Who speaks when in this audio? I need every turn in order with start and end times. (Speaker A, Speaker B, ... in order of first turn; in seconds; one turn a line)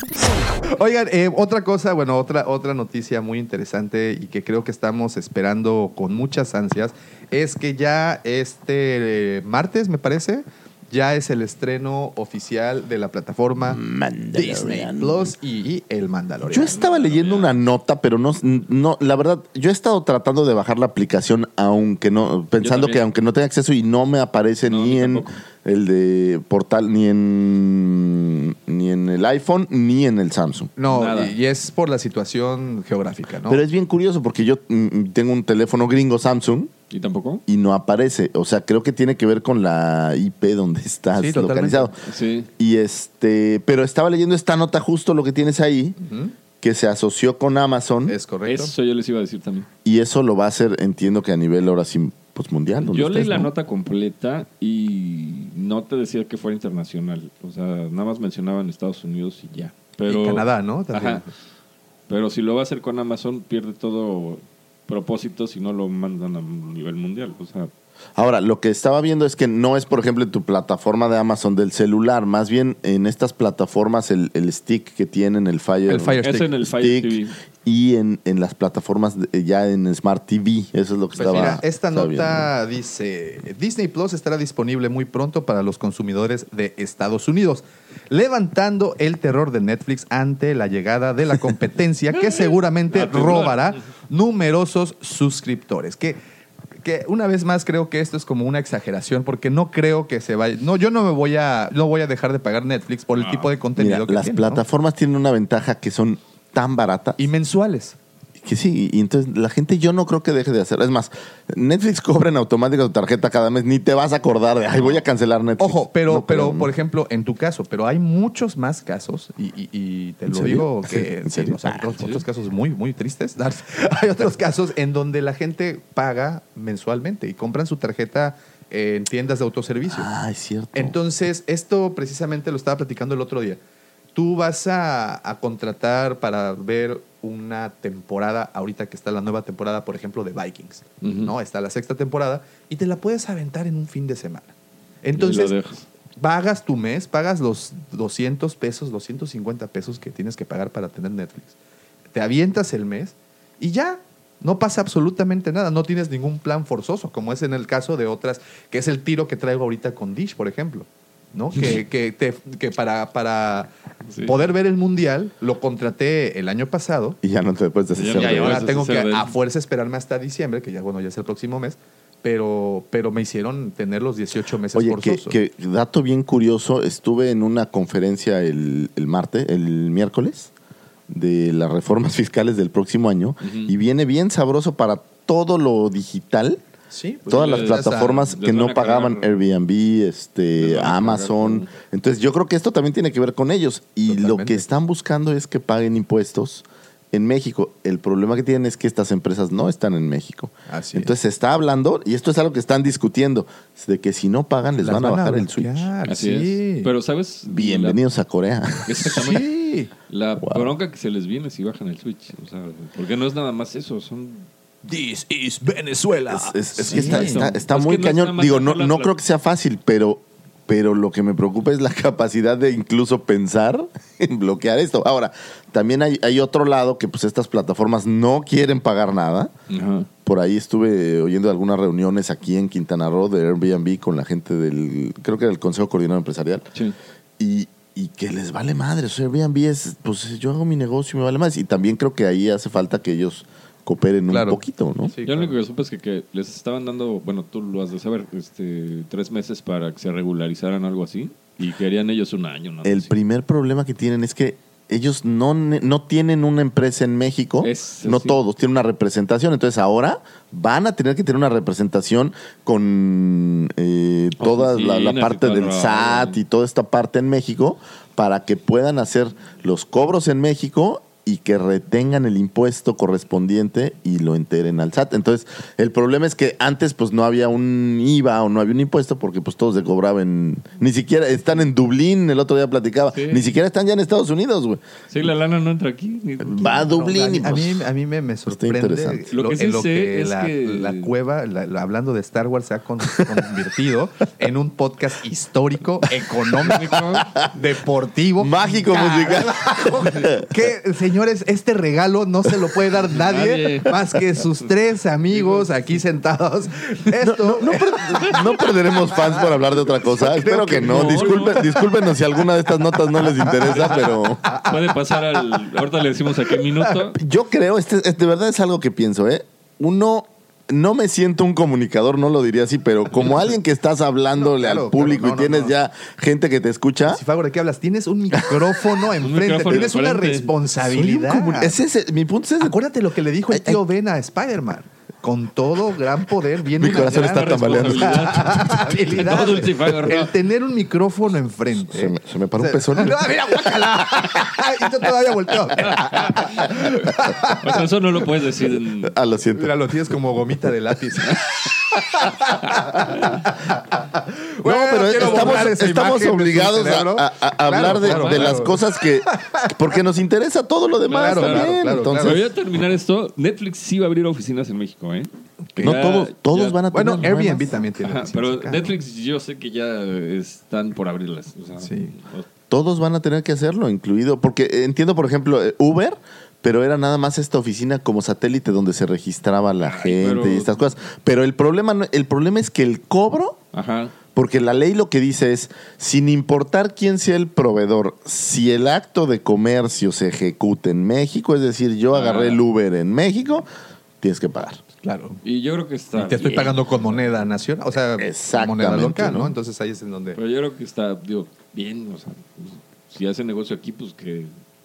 Speaker A: 0.7-13.8
Speaker B: 13.7-15.3
Speaker A: 14.3-16.8
Speaker B: 16.5-30.7
Speaker C: 16.6-17.6
Speaker C: 22.6-23.0
Speaker C: 24.7-25.4
Speaker A: 30.8-33.6
Speaker C: 30.9-31.4
Speaker B: 33.5-36.7
Speaker C: 36.9-37.4
Speaker B: 37.5-41.9
Speaker A: 41.1-41.9
Speaker C: 42.0-42.5
Speaker B: 42.6-46.0
Speaker A: 46.0-46.3
Speaker B: 46.6-48.2
Speaker A: 48.1-48.7
Speaker C: 48.4-49.7
Speaker B: 49.8-53.5
Speaker C: 52.8-61.2
Speaker A: 60.1-61.3
Speaker C: 62.1-67.7
Speaker B: 68.2-82.5
Speaker A: 75.9-76.5
Speaker C: 76.2-77.3
Speaker A: 81.2-96.2
Speaker C: 92.1-93.8
Speaker A: 96.8-104.6
Speaker C: 103.2-103.5
Speaker B: 103.8-107.2
Speaker A: 107.2-108.0
Speaker B: 108.4-116.7
Speaker C: 114.7-115.0
Speaker A: 115.6-130.1
Speaker B: 120.3-121.9
Speaker B: 129.9-130.9
Speaker A: 130.7-133.6
Speaker A: 134.1-144.5
Speaker C: 141.0-141.3
Speaker A: 145.0-145.6
Speaker C: 145.1-145.8
Speaker A: 146.2-151.5
Speaker A: 152.1-163.7
Speaker C: 164.1-164.4
Speaker A: 164.2-167.2
Speaker B: 167.2-168.7
Speaker C: 167.9-169.3
Speaker A: 168.1-175.4
Speaker B: 174.7-180.5
Speaker B: 181.1-186.6
Speaker C: 183.4-183.7
Speaker A: 186.9-188.3
Speaker B: 187.3-205.9
Speaker C: 187.3-189.4
Speaker C: 190.6-191.7
Speaker A: 194.1-194.6
Speaker A: 200.7-201.1
Speaker A: 204.8-206.9
Speaker C: 206.1-208.0
Speaker B: 207.5-209.3
Speaker C: 208.8-209.5
Speaker A: 209.1-209.9
Speaker C: 210.1-214.4
Speaker B: 210.4-210.7
Speaker A: 214.8-217.5
Speaker B: 216.3-229.5
Speaker C: 216.8-219.1
Speaker C: 229.7-230.1
Speaker B: 230.2-236.7
Speaker B: 237.4-245.1
Speaker A: 244.3-245.6
Speaker C: 245.2-253.1
Speaker B: 252.8-284.8
Speaker C: 257.6-258.4
Speaker C: 264.4-266.4
Speaker C: 283.1-283.5
Speaker C: 285.1-287.2
Speaker B: 286.4-287.8
Speaker A: 286.9-308.7
Speaker B: 288.5-289.2
Speaker C: 289.3-291.1
Speaker C: 296.6-297.3
Speaker B: 298.4-300.4
Speaker C: 303.1-303.9
Speaker C: 305.3-305.8
Speaker B: 307.1-314.6
Speaker A: 309.2-309.5
Speaker A: 310.1-311.9
Speaker C: 310.5-311.7
Speaker A: 313.4-314.8
Speaker C: 314.6-317.2
Speaker B: 317.1-327.2
Speaker A: 324.4-325.7
Speaker A: 327.1-331.8
Speaker C: 329.2-330.5
Speaker B: 330.8-332.8
Speaker A: 332.6-347.6
Speaker B: 333.5-333.8
Speaker B: 336.8-338.8
Speaker C: 336.8-340.3
Speaker B: 341.9-344.5
Speaker C: 345.9-347.1
Speaker C: 347.6-349.1
Speaker B: 348.7-349.9
Speaker A: 349.5-359.7
Speaker C: 353.0-353.4
Speaker B: 354.6-362.4
Speaker C: 355.2-355.7
Speaker C: 357.8-358.7
Speaker C: 361.1-367.4
Speaker A: 361.1-362.4
Speaker B: 365.8-367.7
Speaker A: 366.9-368.9
Speaker C: 368.0-372.5
Speaker A: 371.8-372.1
Speaker B: 372.7-383.6
Speaker C: 379.8-380.8
Speaker C: 383.7-384.1
Speaker B: 384.3-393.7
Speaker C: 392.1-392.6
Speaker B: 394.2-394.8
Speaker A: 395.0-395.4
Speaker C: 395.4-397.3
Speaker A: 396.1-400.4
Speaker B: 398.2-399.5
Speaker C: 400.3-404.5